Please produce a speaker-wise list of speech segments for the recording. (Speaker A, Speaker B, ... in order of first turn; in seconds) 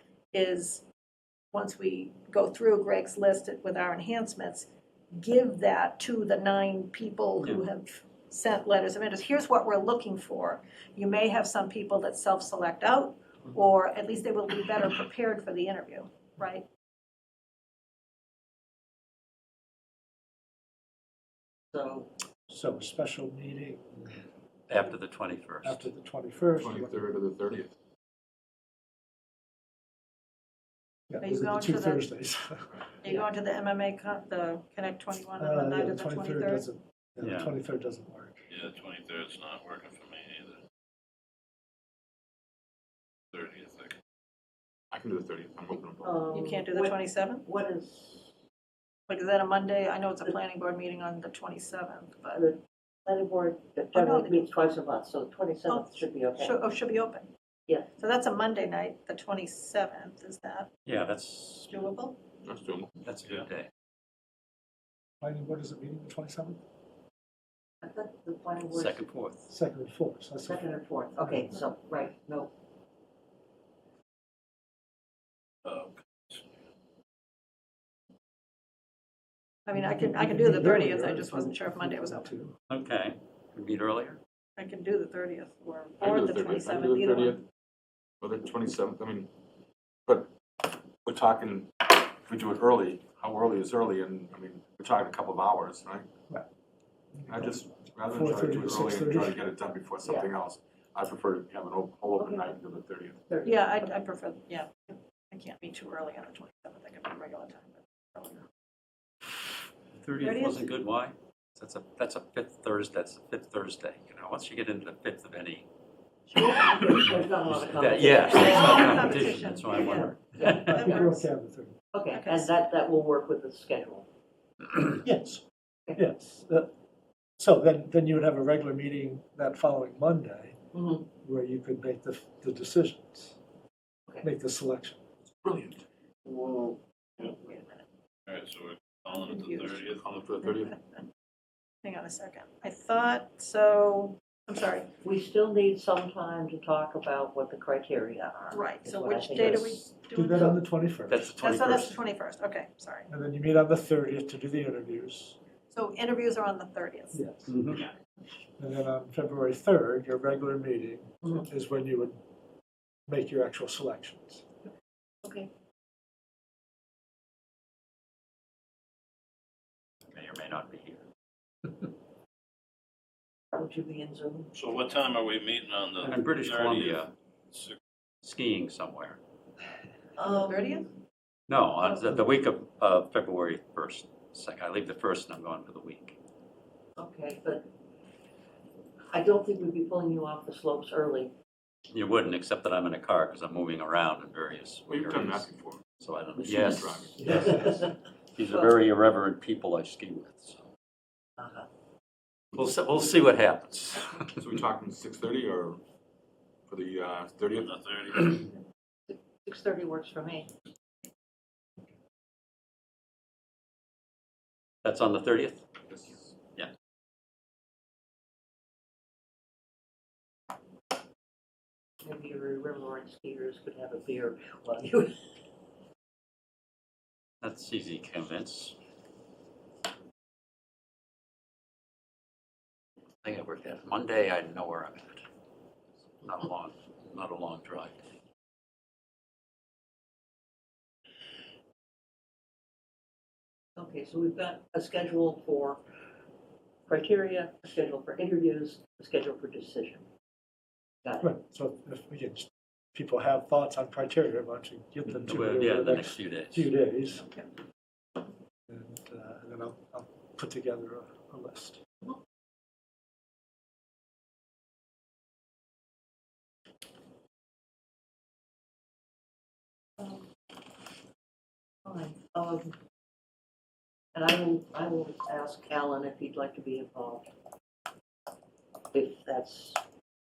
Speaker A: 0.3-0.8, 1.5-16.6, 31.2-32.0, 33.0-36.6, 46.3-47.4, 49.1-52.4, 53.9-54.8, 55.7-57.3, 58.0-60.7, 61.7-62.2, 79.7-82.3, 84.6-87.4, 103.4-108.4, 110.2-110.7, 116.3-116.8, 118.0-121.2, 122.1-122.5, 137.2-137.8, 139.1-141.1, 141.8-144.9, 148.5-150.6, 151.3-153.1, 155.7-157.2, 180.2-180.9
Speaker B: 7.4-7.7, 24.7-25.9, 37.2-37.5, 60.9-61.8, 63.0-63.7, 68.7-69.5, 82.7-84.2, 110.0-115.7, 117.5-120.7, 151.1-152.0, 157.5-157.8, 170.1-171.0, 176.0-177.1, 178.2-179.2, 181.5-186.2, 191.9-197.7, 198.3-200.7, 202.5-204.4, 214.8-215.6, 227.4-228.8, 233.2-235.2, 236.1-238.0, 255.2-256.7
Speaker C: 21.7-22.1, 46.0-48.3, 52.3-56.6, 67.8-69.0, 70.4-72.5, 100.0-100.3, 102.2-102.6, 103.3-104.0, 116.3-121.0, 121.9-124.1, 130.7-131.1, 145.0-149.8, 165.2-165.5, 173.5-174.5, 180.2-180.8, 187.0-187.7, 189.1-191.3, 197.2-198.8, 201.4-201.7, 209.1-210.5, 222.0-225.2, 243.8-245.8, 246.9-250.1, 251.0-251.3, 270.0-270.3, 271.8-272.8, 274.1-277.3, 278.9-279.8
Speaker D: 22.5-24.2, 25.6-27.1, 31.1-32.7, 35.4-38.4, 65.2-66.6, 69.5-71.5, 79.7-82.5, 97.1-99.4, 120.5-121.7, 125.0-125.4, 126.0-126.7, 127.4-130.6, 131.2-133.3, 134.2-135.0, 150.1-151.3, 153.1-155.4, 157.1-157.5, 158.6-162.2, 163.1-164.4, 197.2-197.6, 251.2-257.3, 258.7-261.8
Speaker E: 26.6-27.7, 44.9-46.1, 62.4-62.9, 86.0-87.4, 88.2-89.3, 90.0-90.3, 91.0-96.1, 97.3-103.2, 135.4-135.8, 139.9-140.7, 194.9-195.8, 196.4-197.2, 204.4-205.8, 206.7-207.7, 215.9-216.3
Speaker F: 38.5-40.6, 43.3-43.9, 75.6-76.4, 136.4-136.7, 138.3-140.0, 174.5-177.8, 207.5-208.5